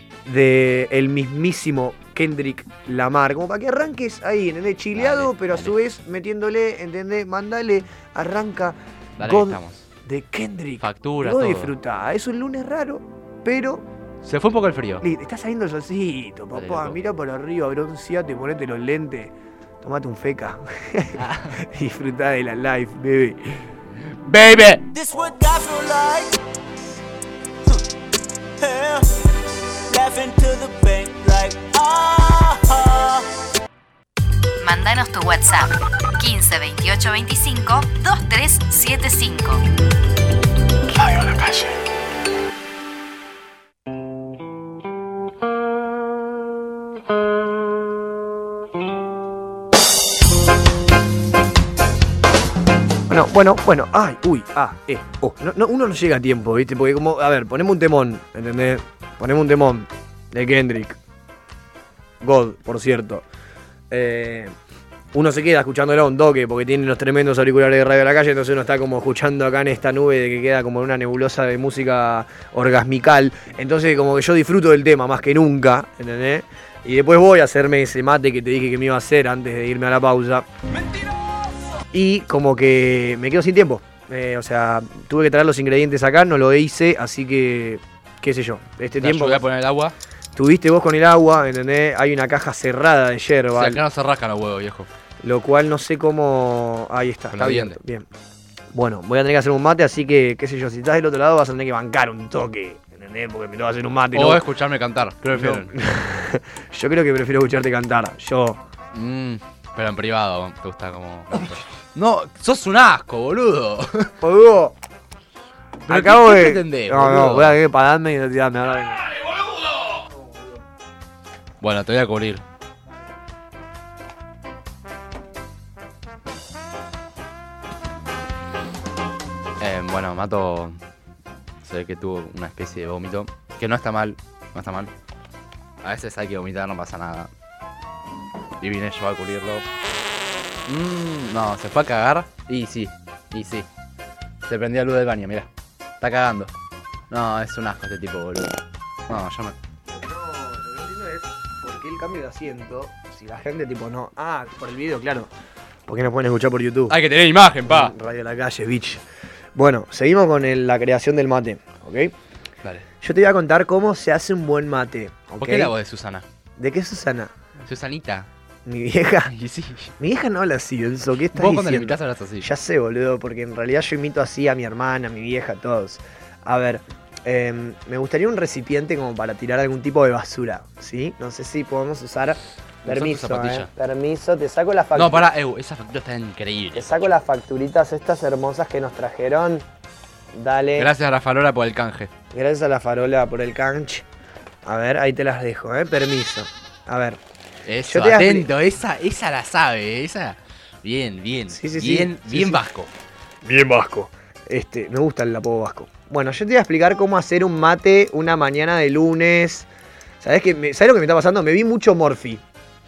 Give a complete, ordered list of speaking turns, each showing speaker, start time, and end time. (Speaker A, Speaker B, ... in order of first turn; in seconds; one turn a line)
Speaker A: 0.2-13.8
Speaker B: 4.9-5.7
Speaker B: 9.2-9.8
Speaker B: 10.8-11.7
Speaker B: 14.2-15.1
Speaker A: 15.0-23.6
Speaker B: 16.5-17.0
Speaker B: 21.2-21.6
Speaker B: 24.2-24.8
Speaker C: 24.9-26.4
Speaker C: 28.6-29.2
Speaker C: 29.9-33.3
Speaker D: 34.6-39.6
Speaker A: 53.1-61.0
Speaker A: 62.2-63.2
Speaker A: 63.9-64.5
Speaker A: 65.1-80.5
Speaker A: 81.9-89.4
Speaker B: 89.0-89.9
Speaker A: 90.3-93.8
Speaker B: 93.5-94.9
Speaker A: 95.2-98.1
Speaker B: 97.3-97.8
Speaker A: 98.7-104.4
Speaker B: 104.1-105.7
Speaker A: 105.3-108.6
Speaker B: 108.9-114.1
Speaker A: 114.2-114.8
Speaker B: 115.9-117.6
Speaker A: 115.9-119.1
Speaker B: 121.6-122.4
Speaker B: 129.6-130.8
Speaker B: 131.6-134.9
Speaker B: 135.8-137.3
Speaker B: 138.6-139.6
Speaker B: 140.7-143.7
Speaker B: 144.4-145.5
Speaker B: 146.0-146.5
Speaker B: 147.1-148.6
Speaker B: 149.1-149.5
Speaker A: 149.9-155.3
Speaker A: 155.9-157.0
Speaker B: 156.9-157.9
Speaker A: 157.6-159.0
Speaker A: 159.6-162.1
Speaker A: 163.0-165.7
Speaker B: 165.4-166.2
Speaker A: 166.6-167.3
Speaker B: 167.7-168.3
Speaker A: 168.7-169.3
Speaker B: 169.3-169.9
Speaker A: 170.0-185.2
Speaker B: 171.3-172.5
Speaker B: 182.8-183.7
Speaker B: 184.9-187.1
Speaker A: 186.7-189.7
Speaker A: 190.3-190.9
Speaker B: 190.8-192.1
Speaker A: 192.3-194.0
Speaker A: 194.6-197.2
Speaker B: 197.7-202.9
Speaker A: 197.8-198.5
Speaker A: 201.5-202.6
Speaker A: 203.4-209.7
Speaker A: 210.2-212.4